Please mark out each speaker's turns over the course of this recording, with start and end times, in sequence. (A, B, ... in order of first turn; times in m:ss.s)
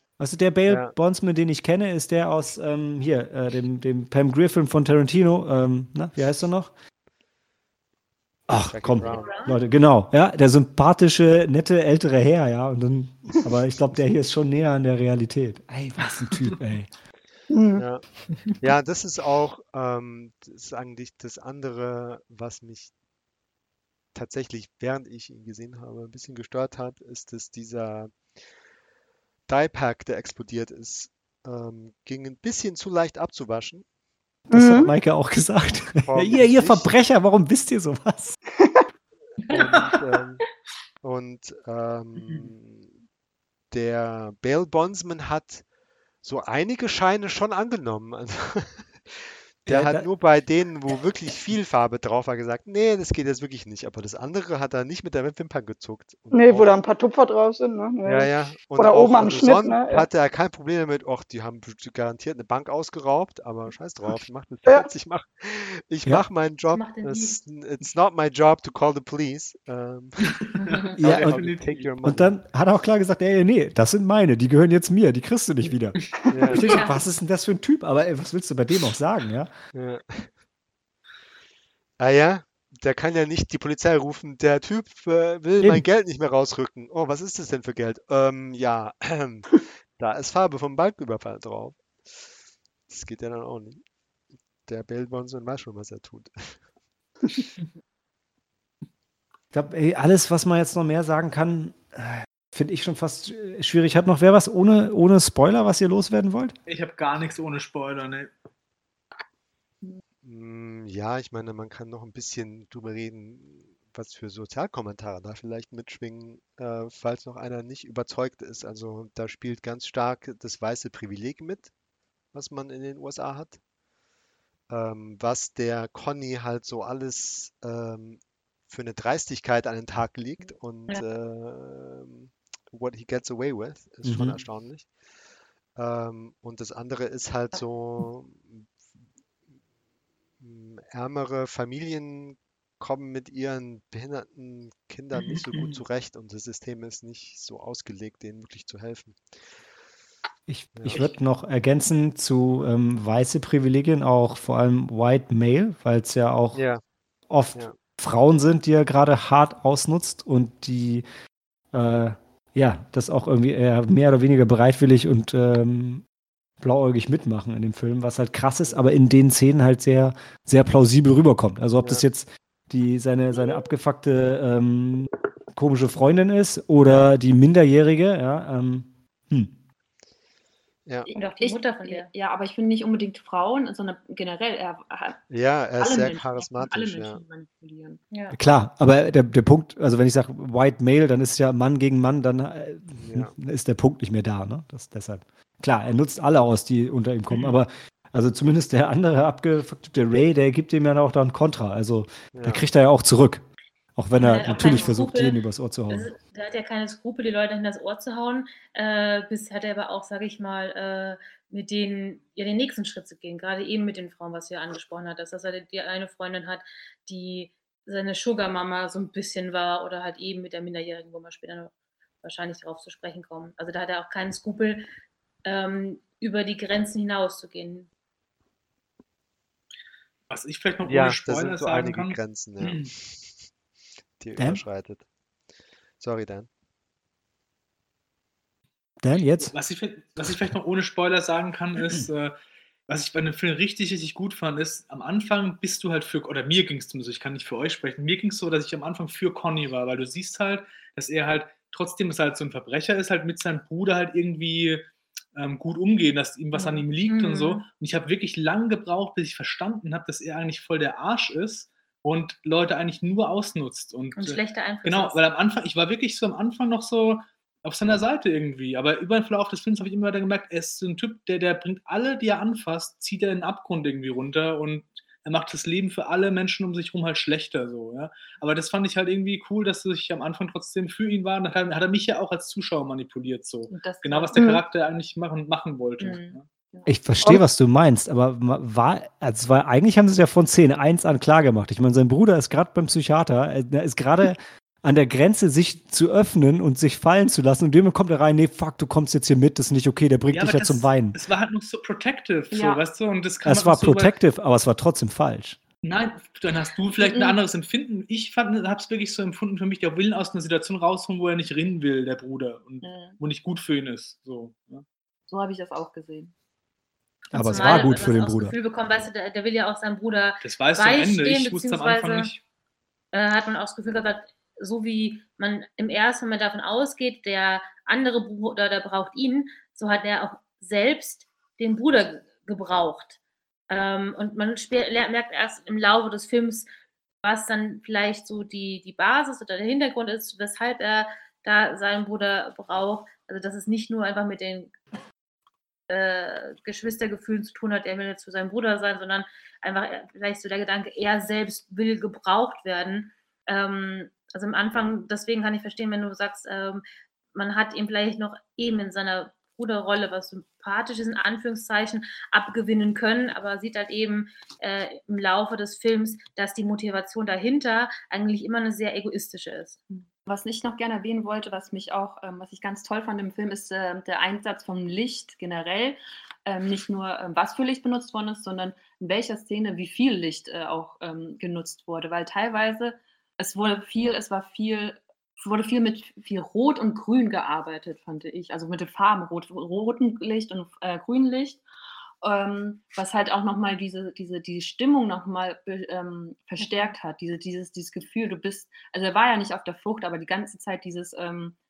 0:00.2-0:06.7 A
0:00.7-0:00.9 B
0:08.5-0:16.9 A
0:08.5-0:09.3 B
0:09.0-0:09.6 C
0:17.5-0:17.8 D
0:17.8-0:18.0 B
0:18.6-0:22.9 B
0:24.1-0:28.2 B
0:29.5-0:33.8 B
0:34.5-0:34.9 D
0:34.5-0:38.4 A
0:36.0-0:36.9 B
0:38.6-0:38.8 D
0:39.5-0:39.8 C
0:39.5-0:40.4 B
0:39.6-0:40.0 E
0:41.0-0:42.9 B
0:42.2-0:42.5 E
0:43.7-0:45.6 B
0:46.2-0:56.7 B
0:49.7-0:50.1 A
0:56.3-1:00.1 D
0:58.0-1:12.4 B
1:06.7-1:07.4 C
1:10.5-1:11.9 E
1:10.6-1:10.9 C
1:11.0-1:11.5 A
1:12.0-1:19.5 A
1:16.3-1:16.7 B
1:16.6-1:17.0 C
1:19.7-1:20.3 B
1:22.0-1:31.9 B
1:32.9-1:33.8 B
1:34.7-1:36.6 B
1:39.5-1:46.6 A
1:46.7-1:48.3 E
1:50.2-2:01.7 B
2:02.3-2:03.6 B
2:04.7-2:14.9 B
2:14.0-2:14.4 A
2:15.8-2:18.7 B
2:20.4-2:29.2 B
2:25.2-2:25.8 E
2:30.5-2:36.6 A
2:30.8-2:31.1 B
2:36.5-2:36.8 B
2:37.3-2:41.0 A
2:41.7-2:46.0 A
2:46.6-2:59.5 A
3:00.9-3:01.1 B
3:01.1-3:02.1 C
3:01.1-3:05.2 F
3:05.3-3:07.2 B
3:05.8-3:08.0 F
3:08.3-3:23.4 A
3:13.0-3:13.3 B
3:17.3-3:17.6 E
3:22.3-3:22.6 B
3:24.0-3:26.1 A
3:24.1-3:25.4 C
3:25.9-3:41.7 C
3:42.2-3:44.9 C
3:45.4-3:47.9 C
3:50.3-3:52.9 E
3:50.8-3:53.3 B
3:54.2-3:55.0 B
3:54.4-3:54.6 A
3:56.0-3:56.5 B
3:59.0-3:59.5 A
3:59.4-4:02.4 E
4:02.9-4:46.4 E
4:16.6-4:17.6 C
4:24.2-4:25.2 C
4:43.7-4:44.5 F
4:46.0-4:47.0 F
4:46.9-5:01.2 A
5:00.3-5:04.2 E
5:02.5-5:02.8 F
5:03.5-5:05.6 A
5:05.8-5:14.8 E
5:07.0-5:07.4 F
5:12.8-5:13.2 F
5:15.3-5:16.3 F
5:17.3-5:22.3 C
5:17.3-5:18.6 A
5:20.4-5:22.4 E
5:23.1-5:33.2 C
5:33.7-5:36.7 C
5:37.2-5:44.8 C
5:45.9-5:56.8 C
5:57.3-6:10.0 C
6:10.2-6:31.6 F
6:32.2-6:41.6 F
6:36.6-6:37.0 C